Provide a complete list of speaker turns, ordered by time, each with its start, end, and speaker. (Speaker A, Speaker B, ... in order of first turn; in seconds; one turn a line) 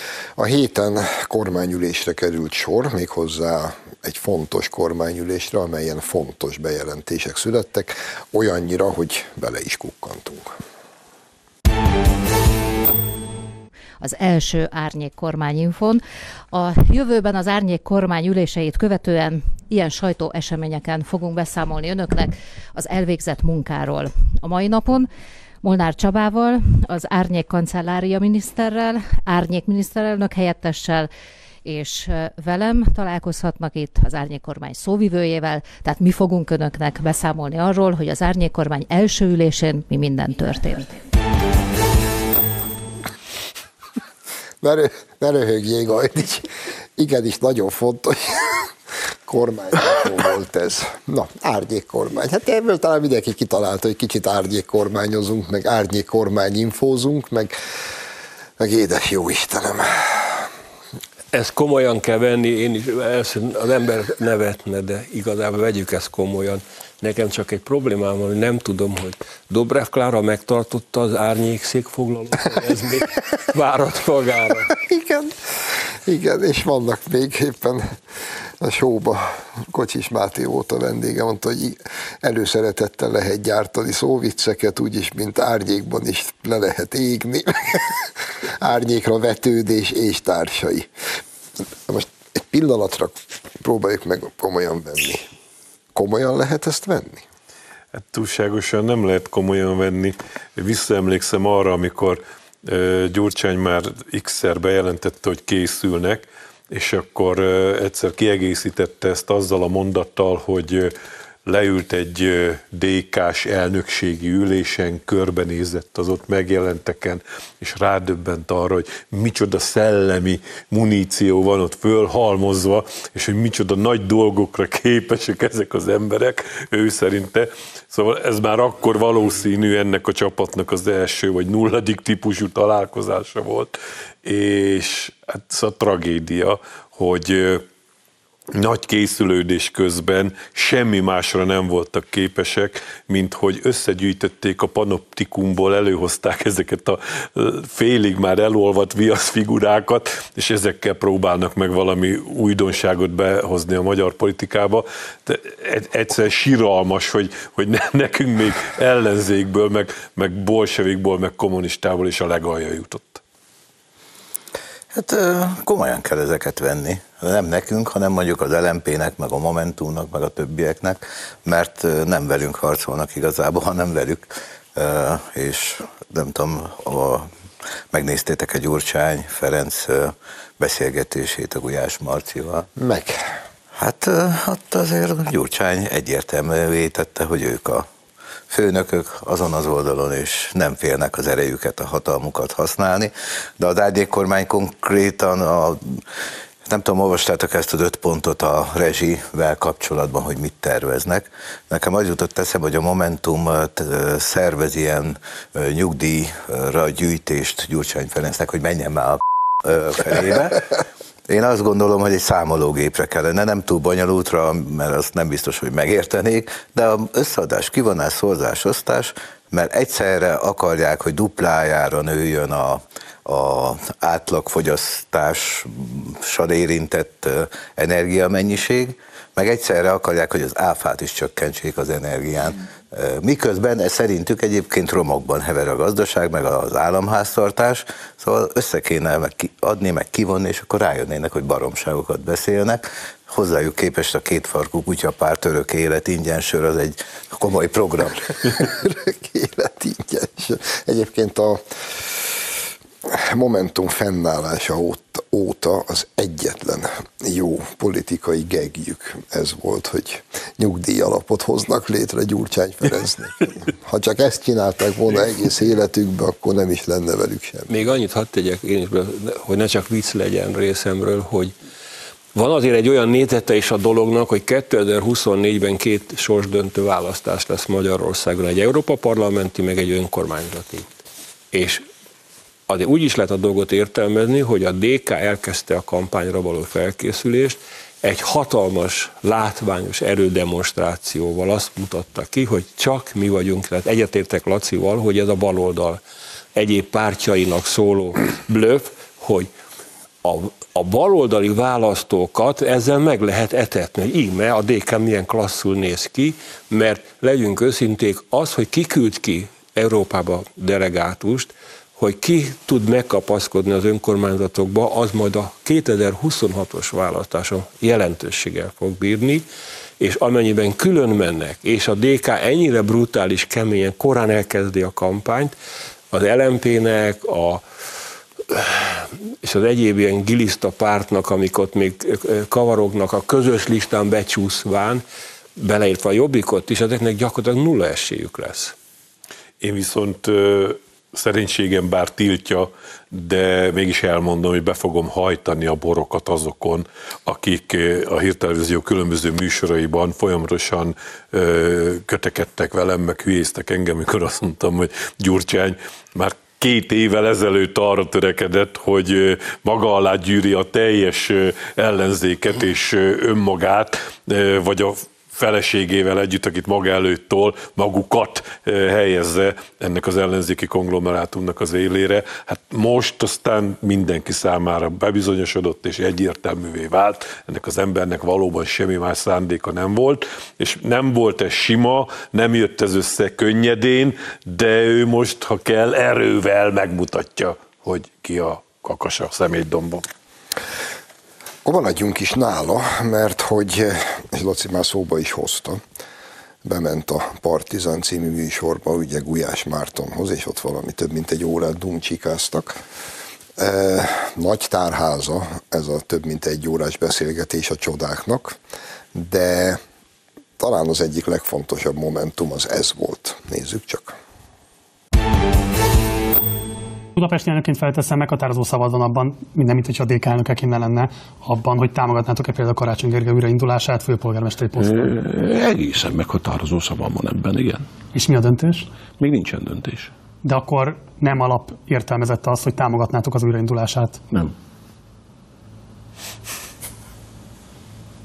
Speaker A: 0.4-10.5
Speaker B: 14.0-25.1
Speaker B: 25.6-31.1
Speaker B: 31.6-41.0
Speaker A: 44.6-48.7
Speaker A: 49.3-57.5
Speaker A: 58.6-60.5
Speaker C: 61.3-74.8
Speaker A: 74.8-78.0
Speaker A: 78.6-90.9
Speaker A: 91.9-95.3
Speaker A: 96.0-97.2
Speaker D: 98.0-110.9
Speaker D: 111.5-137.6
Speaker D: 138.5-163.2
Speaker E: 164.9-177.3
Speaker E: 177.9-182.7
Speaker A: 182.8-183.3
Speaker E: 183.8-187.9
Speaker E: 188.5-196.0
Speaker E: 196.7-248.8
Speaker A: 248.6-251.6
Speaker A: 253.1-267.7
Speaker C: 267.7-271.5
Speaker C: 272.4-280.9
Speaker C: 281.5-281.9
Speaker C: 282.7-296.0
Speaker C: 296.6-299.5
Speaker C: 300.2-319.5
Speaker C: 320.0-325.5
Speaker C: 326.1-327.6
Speaker C: 328.5-335.0
Speaker C: 335.6-338.8
Speaker D: 339.6-390.1
Speaker A: 391.6-395.8
Speaker A: 396.6-402.8
Speaker A: 403.6-408.6
Speaker A: 409.1-409.8
Speaker A: 410.6-414.2
Speaker F: 417.2-425.0
Speaker G: 424.8-427.9
Speaker F: 428.1-428.9
Speaker G: 429.2-430.1
Speaker F: 430.4-434.2